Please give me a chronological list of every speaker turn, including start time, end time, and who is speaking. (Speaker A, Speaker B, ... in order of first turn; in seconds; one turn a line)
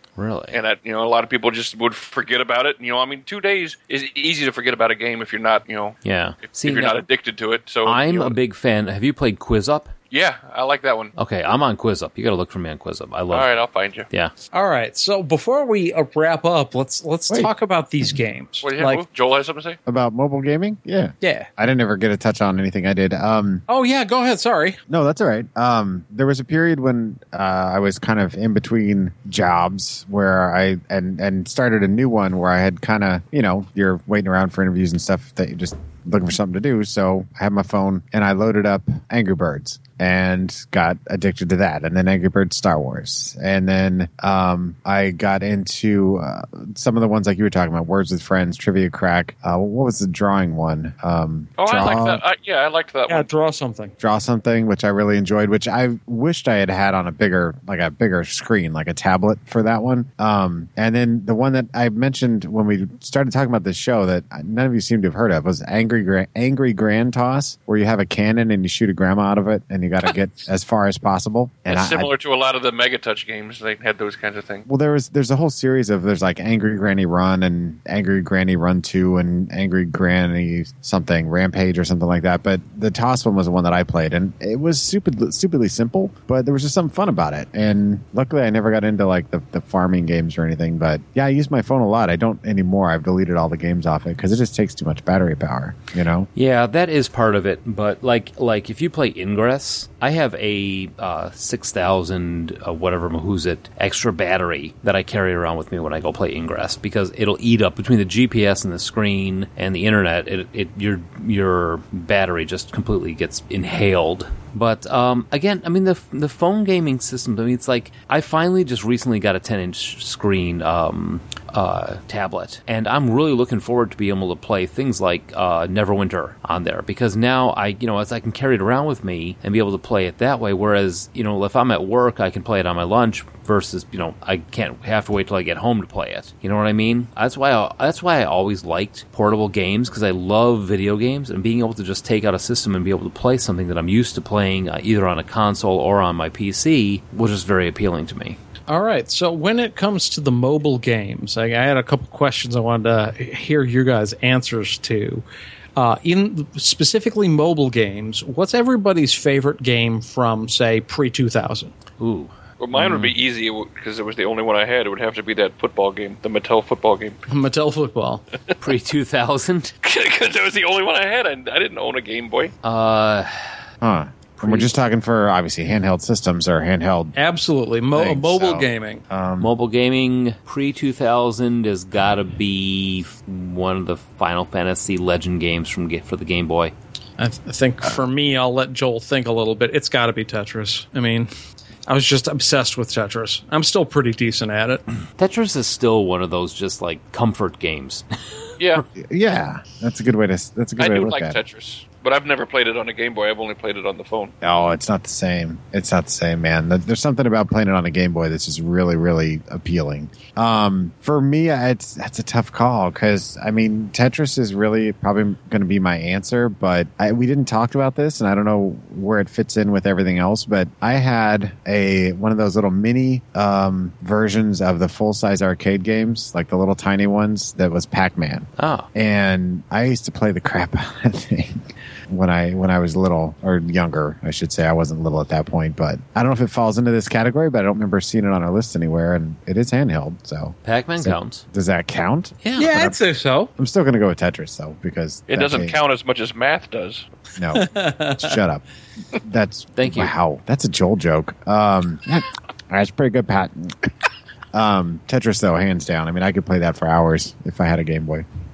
Speaker A: 0.2-0.6
Speaker B: 0.5-8.3
Speaker A: 6.0-7.0
Speaker A: 7.8-9.9
Speaker B: 10.1-11.1
Speaker A: 11.2-13.5
Speaker B: 13.3-14.1
Speaker C: 14.5-19.0
Speaker B: 18.6-19.8
Speaker D: 19.9-23.6
Speaker C: 21.2-21.5
Speaker C: 23.7-24.8
Speaker D: 24.9-52.2
Speaker B: 51.6-53.3
Speaker C: 53.1-53.9
Speaker D: 54.0-72.1
Speaker B: 71.7-74.6
Speaker D: 74.7-96.3
Speaker A: 96.3-148.4
Speaker C: 148.7-155.2
Speaker C: 155.8-161.7
Speaker A: 162.0-163.1
Speaker B: 162.6-167.2
Speaker C: 167.3-168.2
Speaker A: 168.6-169.7
Speaker B: 169.8-172.5
Speaker A: 172.6-173.3
Speaker D: 173.8-177.1
Speaker A: 174.4-174.7
Speaker C: 177.2-179.0
Speaker D: 177.9-179.5
Speaker A: 179.4-186.7
Speaker C: 187.2-191.3
Speaker C: 191.9-194.8
Speaker A: 195.2-198.0
Speaker B: 198.6-198.8
Speaker D: 199.0-201.4
Speaker B: 200.8-204.3
Speaker D: 204.4-242.9
Speaker A: 228.6-228.9
Speaker A: 240.6-241.4
Speaker A: 242.4-242.7
Speaker C: 242.6-243.5
Speaker D: 243.6-245.8
Speaker B: 245.3-247.1
Speaker D: 247.4-248.6
Speaker C: 247.5-248.3
Speaker D: 249.2-253.9
Speaker A: 249.8-250.1
Speaker D: 254.5-258.2